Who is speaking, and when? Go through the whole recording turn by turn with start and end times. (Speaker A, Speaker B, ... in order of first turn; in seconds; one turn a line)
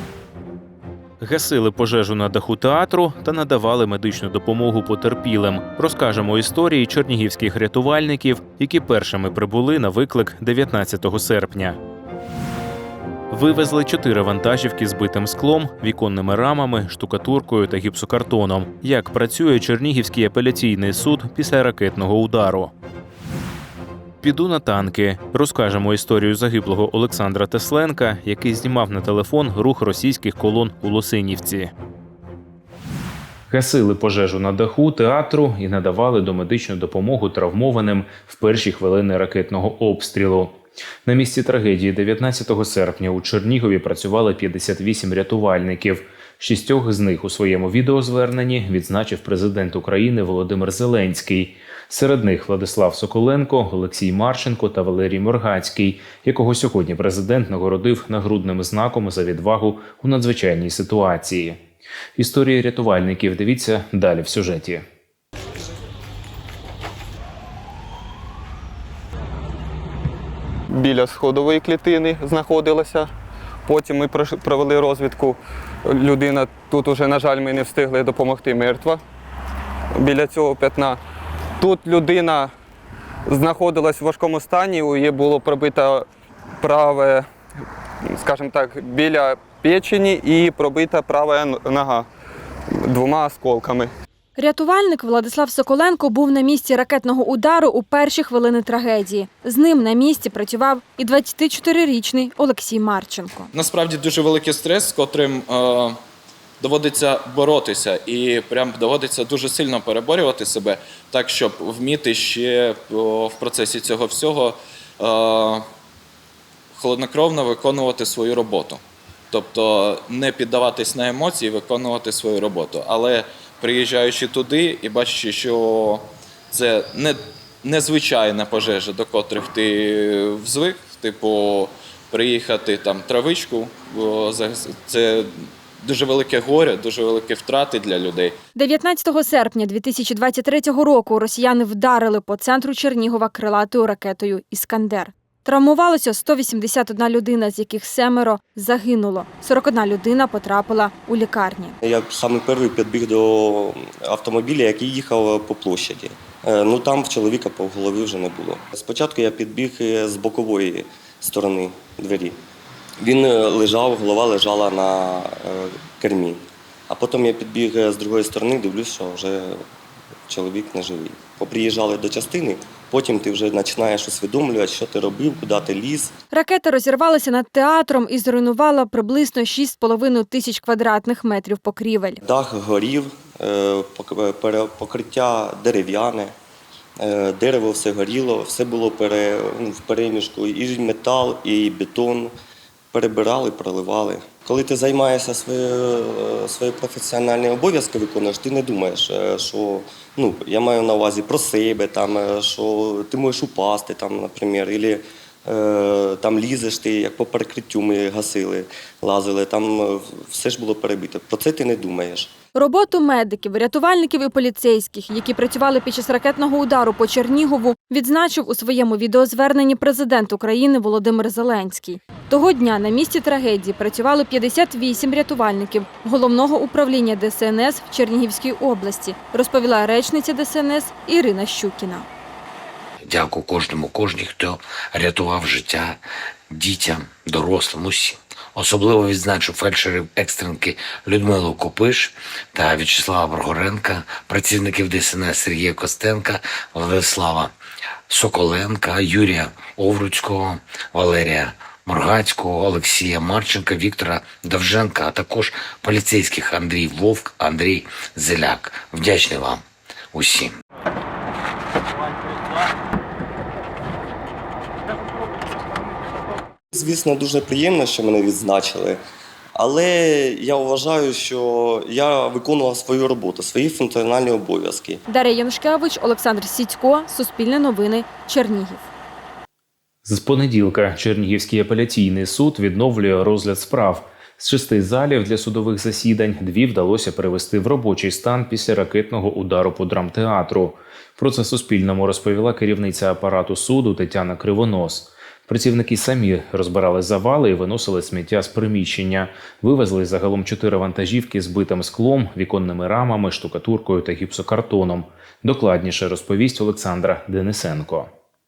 Speaker A: 1.2-11.8
Speaker A: 13.3-22.7
Speaker A: 24.2-31.7
Speaker A: 33.5-61.6
Speaker A: 62.2-64.8
Speaker B: 70.7-73.1
Speaker B: 73.7-75.4
Speaker B: 75.9-79.0
Speaker B: 80.0-81.0
Speaker B: 81.6-82.5
Speaker B: 83.3-86.0
Speaker B: 86.6-87.2
Speaker B: 88.1-92.0
Speaker B: 92.8-93.9
Speaker C: 94.3-103.5
Speaker D: 103.5-106.0
Speaker D: 106.6-115.6
Speaker D: 116.8-118.8
Speaker D: 119.3-135.3
Speaker D: 135.8-138.4
Speaker C: 138.5-151.7
Speaker E: 151.8-162.4
Speaker E: 163.0-169.6
Speaker E: 170.3-176.1
Speaker C: 176.3-182.2
Speaker E: 182.2-186.3
Speaker E: 187.0-192.3
Speaker E: 192.9-212.3
Speaker C: 212.5-232.1
Speaker F: 233.0-236.0
Speaker F: 236.5-247.5
Speaker F: 248.1-260.5
Speaker E: 266.7-269.0
Speaker E: 269.5-275.0
Speaker C: 275.1-278.8
Speaker A: 280.0-308.1